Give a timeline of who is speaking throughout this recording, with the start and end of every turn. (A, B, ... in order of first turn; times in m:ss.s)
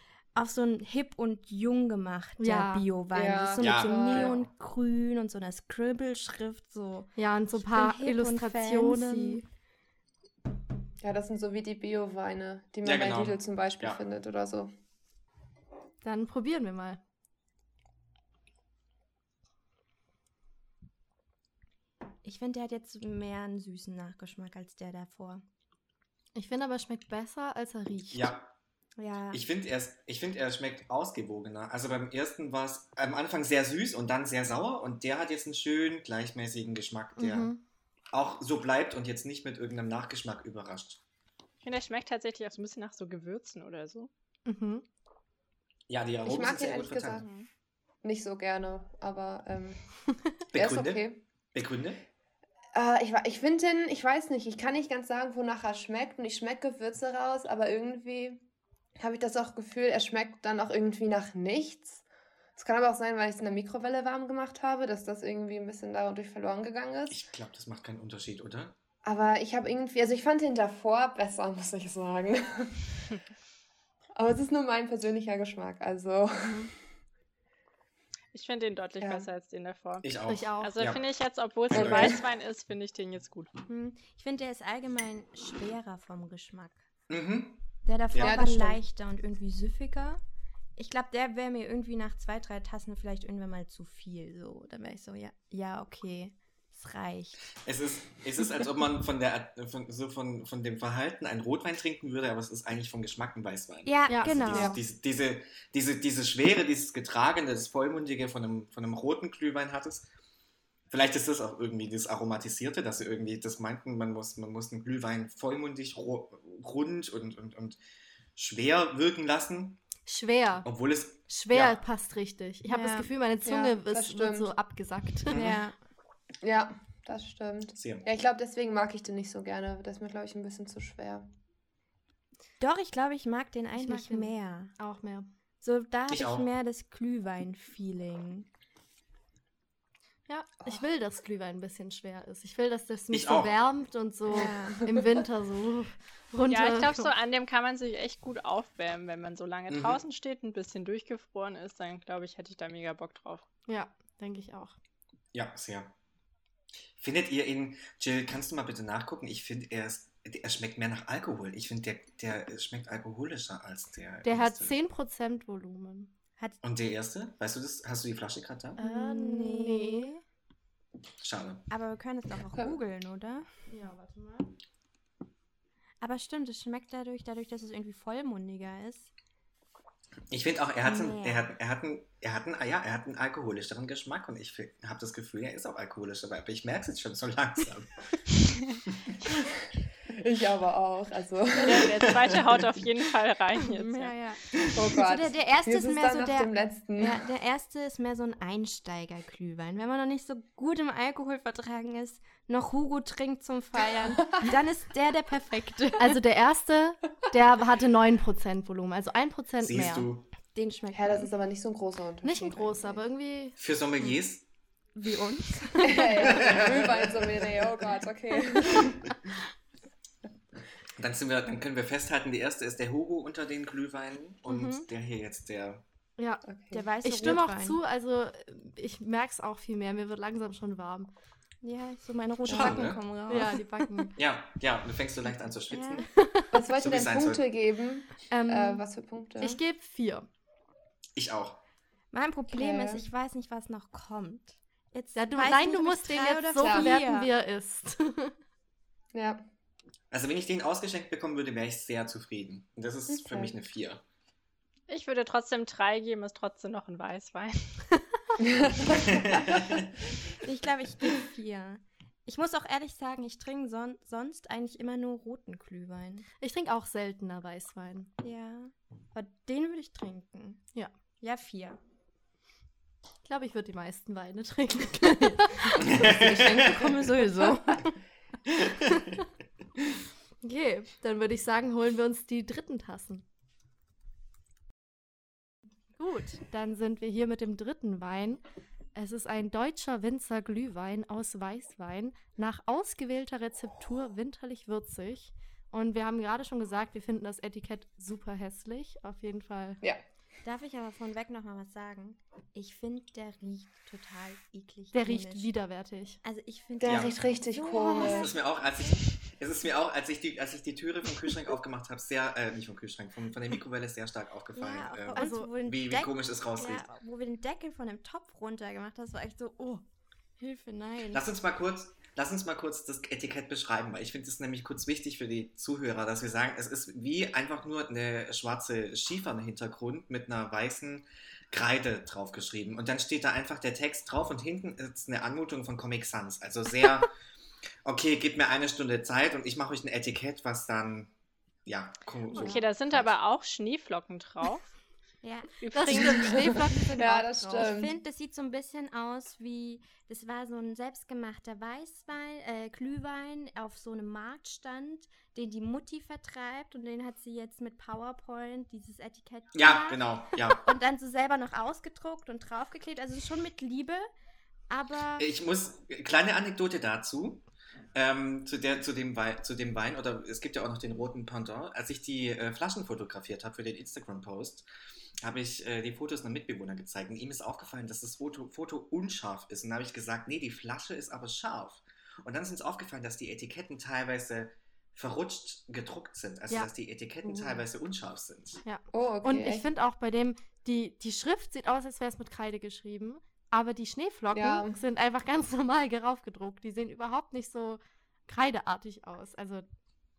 0:00.3-0:09.4 A
0:02.4-0:02.9 B
0:03.1-0:04.4 C
0:03.6-0:04.3 D
0:07.2-0:09.4 B
0:11.0-0:14.7 C
0:12.8-0:14.0 D
0:16.0-0:17.0 B
0:22.2-0:25.4 A
0:26.3-0:28.3 B
0:28.1-0:28.6 D
0:29.0-0:29.4 A
0:29.3-0:37.5 D
0:37.2-0:37.6 B
0:38.1-0:41.0 D
0:41.6-0:44.1 E
0:44.4-0:44.8 B
0:45.9-0:47.2 D
0:46.2-0:47.2 C
0:47.2-0:47.5 E
0:48.0-0:49.8 C
0:50.5-0:52.0 D
0:50.5-0:51.2 C
0:52.7-0:58.4 C
0:59.0-1:02.0 C
1:02.6-1:07.2 C
1:07.1-1:08.8 D
1:09.0-1:13.0 C
1:14.2-1:16.7 C
1:16.4-1:16.7 B
1:18.3-1:20.1 E
1:19.0-1:19.3 C
1:20.0-1:21.0 D
1:20.2-1:20.8 B
1:20.6-1:23.5 E
1:21.7-1:22.2 D
1:21.7-1:22.2 C
1:23.7-1:26.8 A
1:27.1-1:28.4 D
1:27.8-1:30.2 A
1:28.2-1:28.8 C
1:30.8-1:37.5 A
1:37.6-1:50.1 D
1:43.8-1:44.8 A
1:44.1-1:44.8 B
1:50.9-1:57.8 D
1:58.4-1:59.8 D
2:00.1-2:00.7 B
2:00.6-2:01.8 D
2:01.3-2:05.4 B
2:02.7-2:03.1 A
2:03.4-2:04.5 C
2:05.3-2:05.6 D
2:05.3-2:05.7 A
2:06.4-2:11.3 C
2:07.8-2:08.0 D
2:12.6-2:14.7 A
2:13.7-2:15.3 B
2:15.6-2:18.5 A
2:16.1-2:16.5 D
2:20.3-2:27.1 B
2:23.1-2:23.5 D
2:24.3-2:24.9 A
2:26.5-2:33.4 E
2:29.7-2:30.0 D
2:33.7-2:34.8 B
2:35.3-2:35.9 D
2:37.0-2:44.8 D
2:44.2-2:46.1 B
2:46.6-2:48.8 D
2:48.8-2:50.1 B
2:48.8-2:50.2 A
2:51.2-2:51.7 D
2:51.7-2:53.5 A
2:52.5-2:52.8 C
2:53.7-2:54.5 B
2:56.0-2:59.1 A
3:00.3-3:08.0 D
3:00.8-3:01.5 A
3:10.1-3:12.2 C
3:11.6-3:14.1 E
3:11.9-3:12.5 D
3:13.6-3:26.2 A
3:14.7-3:17.2 C
3:26.0-3:30.1 B
3:29.6-3:30.3 D
3:30.5-3:31.3 A
3:30.9-3:33.0 C
3:32.2-3:33.6 B
3:33.6-3:34.4 D
3:34.9-3:36.6 A
3:35.8-3:39.1 C
3:36.2-3:37.6 D
3:41.0-3:45.8 D
3:44.5-3:44.8 A
3:46.2-3:46.4 B
3:46.4-3:46.8 C
3:46.7-3:47.8 A
3:47.0-3:51.1 B
3:51.6-3:54.1 A
3:52.4-3:52.9 C
3:52.5-3:53.0 D
3:53.3-3:54.1 B
3:54.2-3:56.1 D
3:55.7-3:56.1 A
3:56.1-3:56.5 B
3:56.5-3:59.6 C
3:56.7-3:57.4 D
3:58.3-3:58.8 B
3:59.4-4:00.3 B
4:01.2-4:01.6 D
4:02.1-4:07.3 A
4:02.5-4:03.0 C
4:05.1-4:08.3 B
4:06.6-4:06.9 C
4:09.1-4:09.4 C
4:10.1-4:14.0 D
4:13.1-4:13.5 C
4:14.9-4:17.8 E
4:18.4-4:19.2 C
4:18.9-4:19.9 D
4:20.4-4:26.2 A
4:26.4-4:28.1 B
4:28.2-4:30.6 A
4:31.2-4:31.8 A
4:33.2-4:36.1 B
4:35.2-4:38.0 A
4:35.8-4:36.9 D
4:38.5-4:39.1 D
4:40.4-4:43.2 B
4:46.0-4:48.4 B
4:48.9-4:59.8 B
5:00.4-5:05.5 A
5:04.9-5:06.2 B
5:06.2-5:08.3 A
5:06.8-5:08.3 C
5:06.8-5:07.1 D
5:08.0-5:16.9 D
5:14.5-5:19.8 A
5:15.1-5:15.5 B
5:20.4-5:21.3 A
5:21.1-5:37.1 D
5:37.8-5:41.1 D
5:41.6-5:43.1 D
5:42.3-5:44.6 E
5:45.2-6:04.0 A
5:45.6-5:46.4 E
5:45.7-5:47.7 B
5:46.2-5:48.0 C
5:59.5-6:00.7 D
6:04.7-6:05.2 A
6:05.2-6:07.4 D
6:07.9-6:14.6 D
6:15.2-6:28.6 D
6:28.6-6:39.6 B
6:28.9-6:29.7 C
6:34.3-6:34.8 C